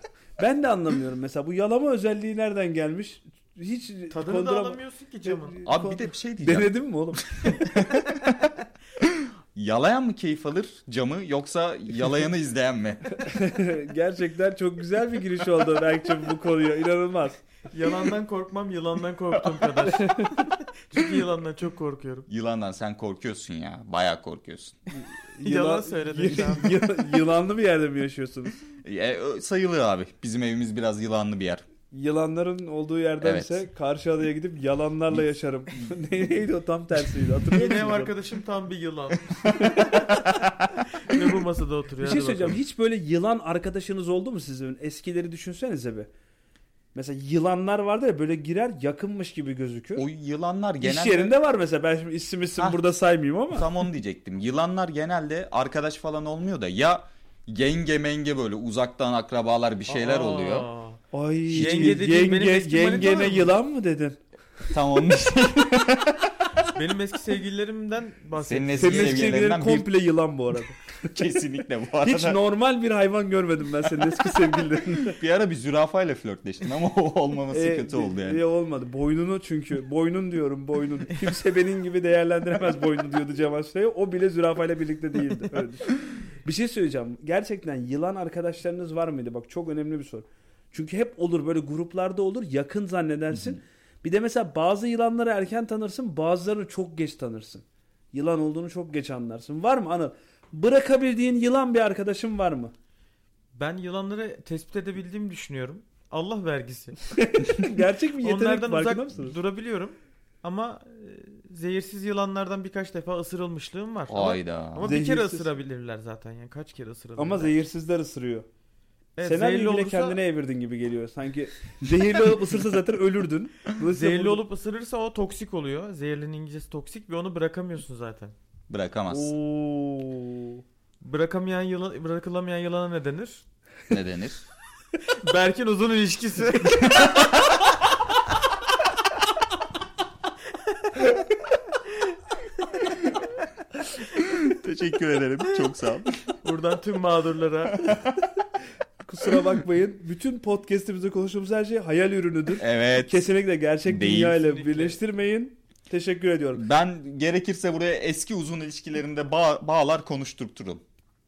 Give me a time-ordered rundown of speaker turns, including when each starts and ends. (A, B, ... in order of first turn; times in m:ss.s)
0:00.4-0:08.0 A
0:04.1-0:05.6 B
0:05.6-0:06.7 C
0:07.3-0:13.3 C
0:13.2-0:17.4 A
0:17.7-0:22.2 B
0:19.9-0:20.4 A
0:22.3-0:24.8 C
0:25.0-0:28.6 A
0:25.4-0:26.8 B
0:28.8-0:31.6 C
0:31.9-0:38.1 A
0:33.2-0:33.6 C
0:37.5-0:40.2 B
0:39.5-0:40.3 A
0:40.9-0:42.6 B
0:42.0-0:46.1 A
0:46.9-0:50.0 A
0:50.0-0:51.3 C
0:50.8-0:53.7 A
0:53.5-1:00.7 C
0:59.9-1:01.0 B
1:01.1-1:04.2 A
1:01.5-1:02.0 C
1:01.5-1:03.5 B
1:04.7-1:06.3 C
1:06.7-1:09.4 B
1:08.4-1:09.9 C
1:08.8-1:11.3 A
1:11.1-1:12.4 C
1:12.0-1:15.2 A
1:15.1-1:18.4 C
1:17.5-1:42.7 A
1:43.5-1:47.0 B
1:47.1-1:49.4 A
1:48.2-1:57.5 B
1:54.1-1:55.0 C
1:54.8-1:55.5 A
1:57.2-1:58.4 A
1:59.2-2:00.2 B
1:59.2-2:04.4 A
2:03.9-2:08.3 B
2:08.7-2:09.3 C
2:09.1-2:10.6 A
2:11.0-2:13.4 B
2:13.9-2:14.4 C
2:15.1-2:16.9 B
2:16.9-2:17.2 C
2:24.1-2:26.3 C
2:26.4-2:27.9 B
2:27.8-2:28.2 C
2:29.0-2:36.6 A
2:32.6-2:33.1 C
2:33.9-2:34.4 C
2:34.4-2:35.0 B
2:36.5-2:40.8 C